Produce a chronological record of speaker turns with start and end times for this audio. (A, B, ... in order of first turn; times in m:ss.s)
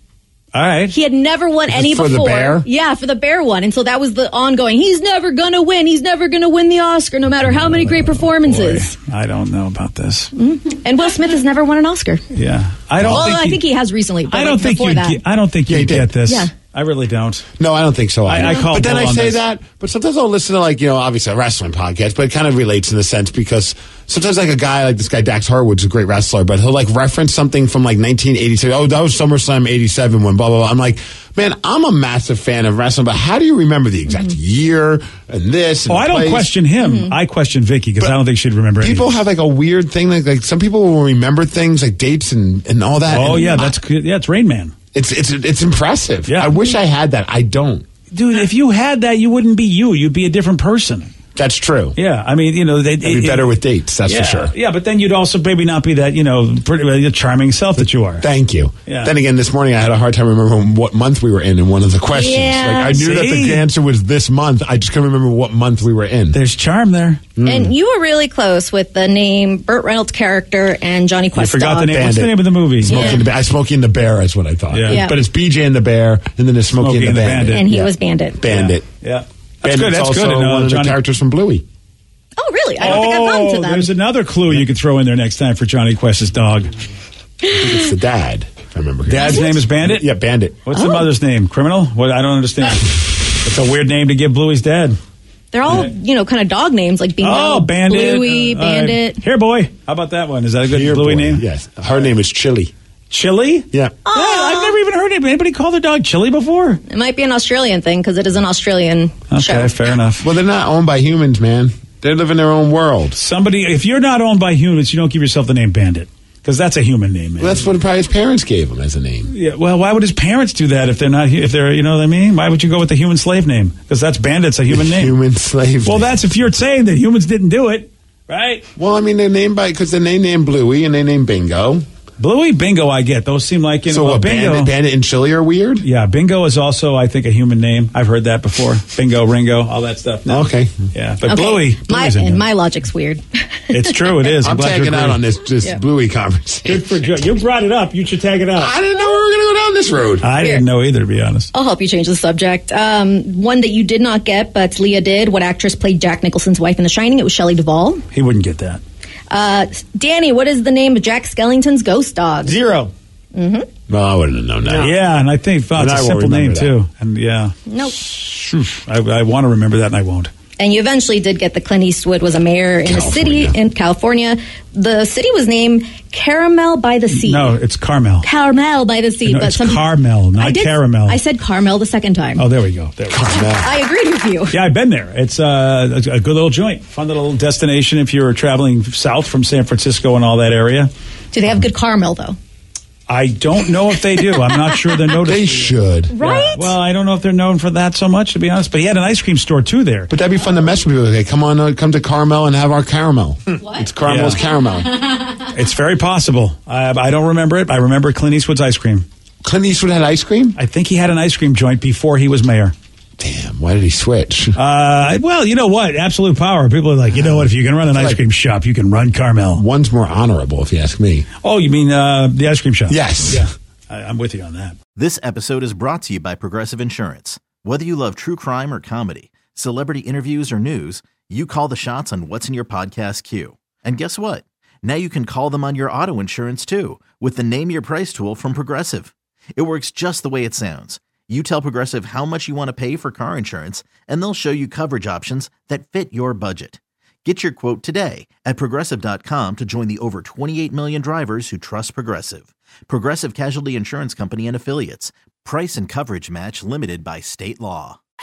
0:00.5-0:01.0 A
0:00.9-0:08.9 B
0:01.7-0:02.7 C
0:07.4-0:10.3 A
0:10.4-0:12.2 B
0:12.3-0:13.6 A
0:13.0-0:13.3 C
0:13.0-0:15.2 B
0:14.3-0:17.5 A
0:15.7-0:16.1 C
0:17.6-0:36.5 C
0:18.3-0:19.4 A
0:35.9-0:39.2 A
0:36.8-0:37.1 B
0:38.8-0:43.7 C
0:43.1-0:44.7 A
0:43.3-0:43.6 B
0:44.9-0:47.8 C
0:46.3-0:46.6 A
0:48.1-0:51.1 A
0:51.4-0:52.0 C
0:52.0-0:53.5 A
0:53.0-0:54.5 C
0:54.0-0:58.2 A
0:58.2-1:06.4 C
1:02.1-1:03.0 B
1:02.9-1:03.7 A
1:06.3-1:07.3 A
1:07.4-1:07.7 C
1:07.4-1:11.9 B
1:11.3-1:13.2 A
1:11.9-1:18.8 C
1:12.9-1:13.2 B
1:14.7-1:15.0 A
1:14.9-1:15.2 B
1:16.8-1:17.6 A
1:17.5-1:18.4 B
1:18.4-1:21.0 A
1:19.6-1:21.6 C
1:22.4-1:23.9 B
1:22.8-1:26.7 A
1:27.4-1:27.8 B
1:27.5-1:30.6 C
1:29.0-1:30.1 A
1:29.2-1:29.6 B
1:30.6-1:35.0 A
1:30.7-1:31.0 B
1:35.5-1:39.2 B
1:35.6-1:35.9 A
1:37.2-1:41.4 A
1:40.7-1:42.7 C
1:43.1-1:46.8 A
1:44.0-1:44.8 B
1:46.9-1:49.7 B
1:49.3-1:50.3 A
1:50.2-1:53.2 C
1:53.2-1:57.7 A
1:57.4-1:59.3 C
1:59.3-2:05.1 A
2:04.7-2:06.4 C
2:05.8-2:08.6 A
2:08.8-2:11.8 C
2:12.2-2:14.7 A
2:13.9-2:15.8 C
2:15.8-2:22.4 A
2:20.3-2:20.8 C
2:21.2-2:23.2 B
2:23.7-2:25.2 A
2:24.4-2:27.0 C
2:26.6-2:28.7 A
2:28.6-2:30.3 C
2:30.2-2:31.5 A
2:30.4-2:30.6 B
2:31.5-2:38.0 B
2:38.1-2:38.8 A
2:39.3-2:42.6 B
2:42.4-2:42.9 A
2:43.3-2:43.7 B
2:43.9-2:45.0 C
2:44.7-2:50.3 A
2:45.8-2:46.7 C
2:47.7-2:48.0 B
2:50.6-2:57.6 B
2:52.8-2:53.6 C
2:57.1-2:58.3 A
2:58.2-3:02.4 B
2:59.2-3:01.2 A
3:02.4-3:03.3 A
3:03.1-3:03.7 C
3:03.3-3:04.6 B
3:04.5-3:10.9 A
3:11.3-3:12.4 B
3:13.1-3:20.1 A
3:15.2-3:16.1 C
3:16.1-3:16.7 B
3:20.1-3:24.9 C
3:23.6-3:23.9 B
3:24.0-3:24.4 A
3:25.4-3:29.1 A
3:29.4-3:30.6 C
3:30.6-3:32.7 A
3:33.2-3:34.6 C
3:34.6-3:39.6 A
3:37.1-3:38.2 C
3:39.6-3:41.2 C
3:41.4-3:44.8 A
3:42.9-3:43.4 C
3:45.0-4:18.0 D